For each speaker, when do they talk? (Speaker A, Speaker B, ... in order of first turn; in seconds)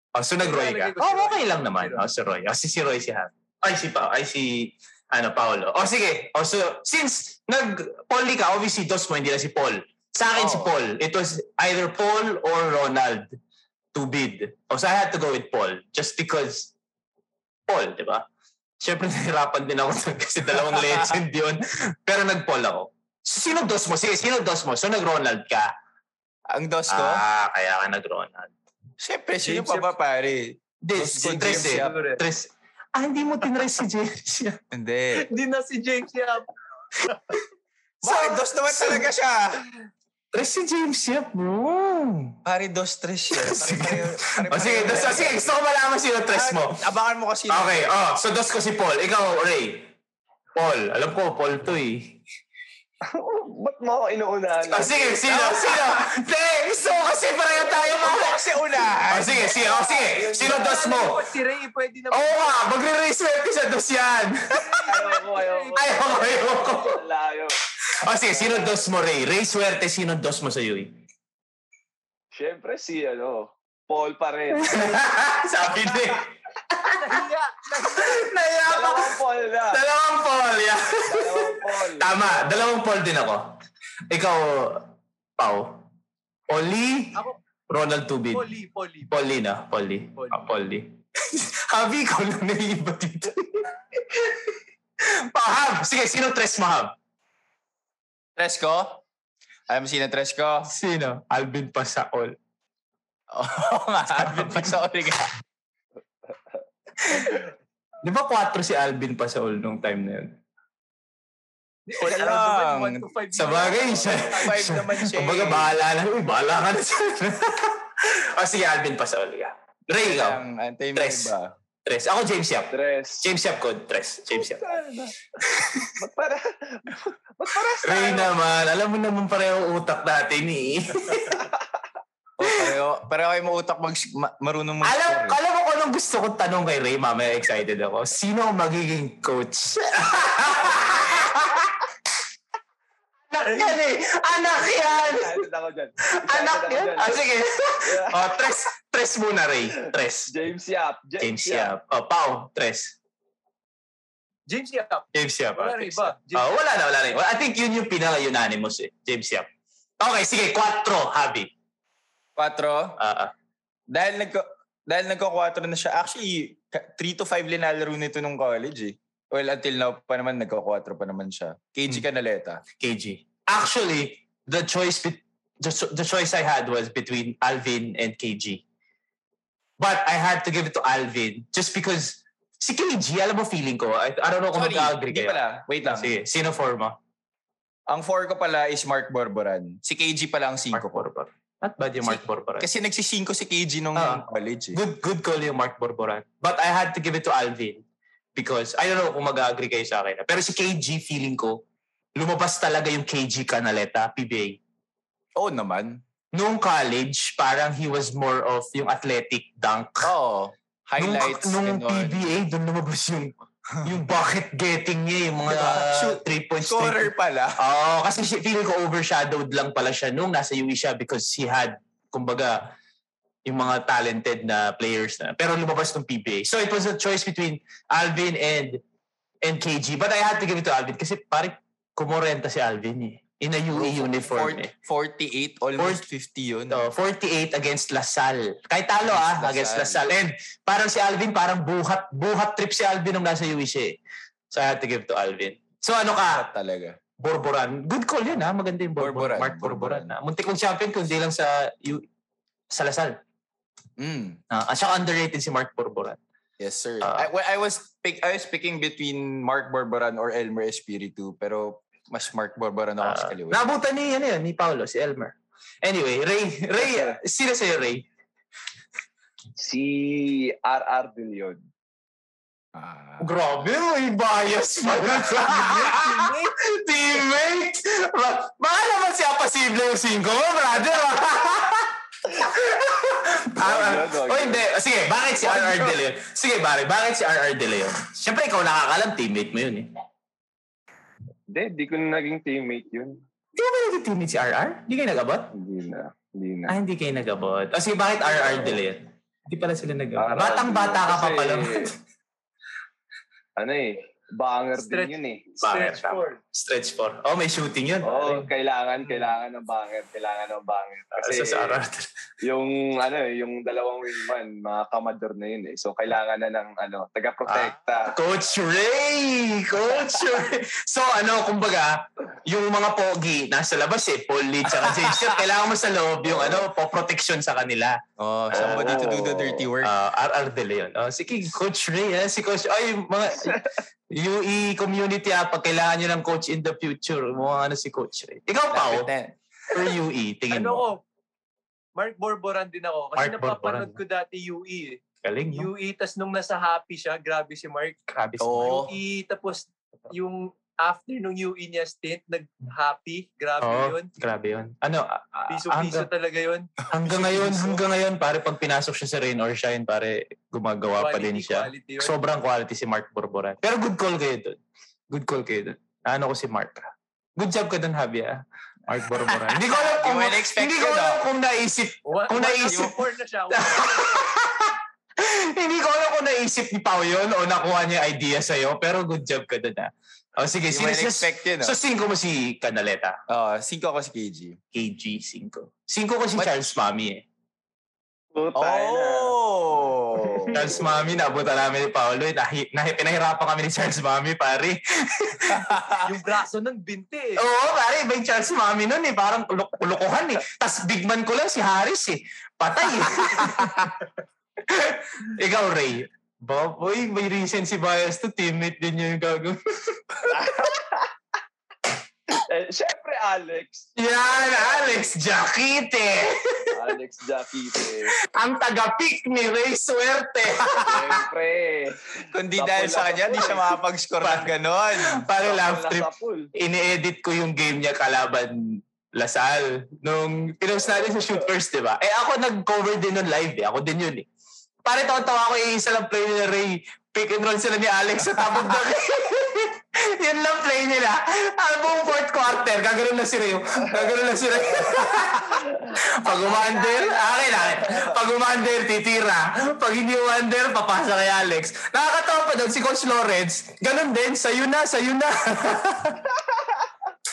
Speaker A: 0.1-13.4, 13.9-16.7, 17.7-18.2, 18.8-25.7, 26.9-28.5, 30.8-34.6, 38.0-39.1, 40.3-42.4, 43.3-46.8, 47.5-49.9, 50.6-52.2, 54.7-58.4, 59.1-61.2, 62.1-64.8, 65.8-67.0, 68.0-71.0, 74.5-77.0, 77.9-79.2, 79.7-83.6, 84.1-85.8, 86.5-88.4, 89.1-96.9, 100.7-102.4, 104.1-104.8, 107.0-107.4, 108.0-110.4, 113.3-120.4, 121.0-121.3, 121.8-124.7, 125.4-126.0, 127.8-131.4, 134.8-141.8, 143.3-145.4, 146.2-150.3, 151.2-152.9, 155.1-159.5, 160.0-161.5, 163.0-163.3, 172.8-178.6, 179.8-187.0, 190.7-192.7, 194.0-197.8, 198.3-201.6, 202.2-204.6, 206.3-210.1, 211.0-222.6, 223.4-228.8, 229.4-234.7, 235.8-236.0, 236.7-244.0, 244.5-246.5, 247.2-252.0, 252.7-253.2, 254.5-256.2, 257.0-257.3, 263.0-268.1, 273.2-289.9, 293.6-295.5, 296.7-302.0, 305.6-308.5, 311.2-312.1, 317.5-328.0, 328.5-329.1, 329.8-339.1, 339.7-340.9, 343.2-344.0, 345.2-345.7, 348.1-348.8, 353.6-356.1, 356.9-373.0, 373.5-383.2, 384.7-387.2, 390.5-395.8, 397.4-403.9, 404.6-410.5, 414.0-416.8, 418.2-421.2, 424.2-434.3, 434.9-456.2
Speaker B: 0.4-2.1, 29.4-29.9, 31.4-32.2, 35.2-36.5, 60.4-62.7, 64.6-66.1, 76.9-78.3, 88.3-89.1, 90.2-90.5, 111.9-114.8, 143.5-143.7, 154.5-156.6, 275.2-276.6, 304.8-306.4, 340.5-341.0, 342.0-345.0, 345.5-348.0, 348.6-354.1, 355.5-357.8, 361.0-362.1, 372.1-374.3, 396.1-397.4
Speaker C: 10.3-10.7, 26.5-27.2, 29.0-32.0, 34.7-35.2, 38.0-39.6, 42.5-45.5, 46.3-47.8, 55.2-56.0, 57.9-59.6, 98.4-99.0, 99.7-100.7, 103.3-105.3, 112.0-113.1, 114.4-115.7, 120.0-121.5, 132.4-135.4, 162.4-163.0, 163.9-172.6, 184.6-186.2, 187.9-191.1, 192.1-194.8, 205.4-206.0, 210.0-212.3, 215.5-217.6, 233.8-236.8, 239.0-240.1, 246.3-247.0, 249.0-250.2, 254.0-254.4, 256.6-263.7, 272.8-273.3, 324.9-325.1, 328.2-329.9, 338.7-339.3, 348.4-348.9, 369.4-371.2, 380.7-381.8, 383.3-384.6, 388.6-390.6, 395.5-396.1, 403.4-403.7, 422.3-425.2
Speaker D: 53.1-55.2, 59.5-61.1, 64.8-67.5, 68.3-68.8, 72.3-75.0, 78.7-79.8, 81.1-82.7, 113.6-114.4, 122.7-123.3, 124.4-125.2, 126.0-128.3, 131.4-131.7, 144.5-147.2, 147.8-148.2, 150.3-151.7, 269.6-271.6, 283.6-284.7, 291.5-293.2, 295.5-296.8, 298.4-298.8, 300.2-301.9, 303.6-305.5, 308.0-311.8, 312.4-318.2, 326.3-326.6, 328.5-329.7, 388.3-389.4, 390.5-391.3, 410.3-411.1, 412.3-415.1, 416.7-418.1, 420.8-423.7, 425.4-426.5, 444.7-448.2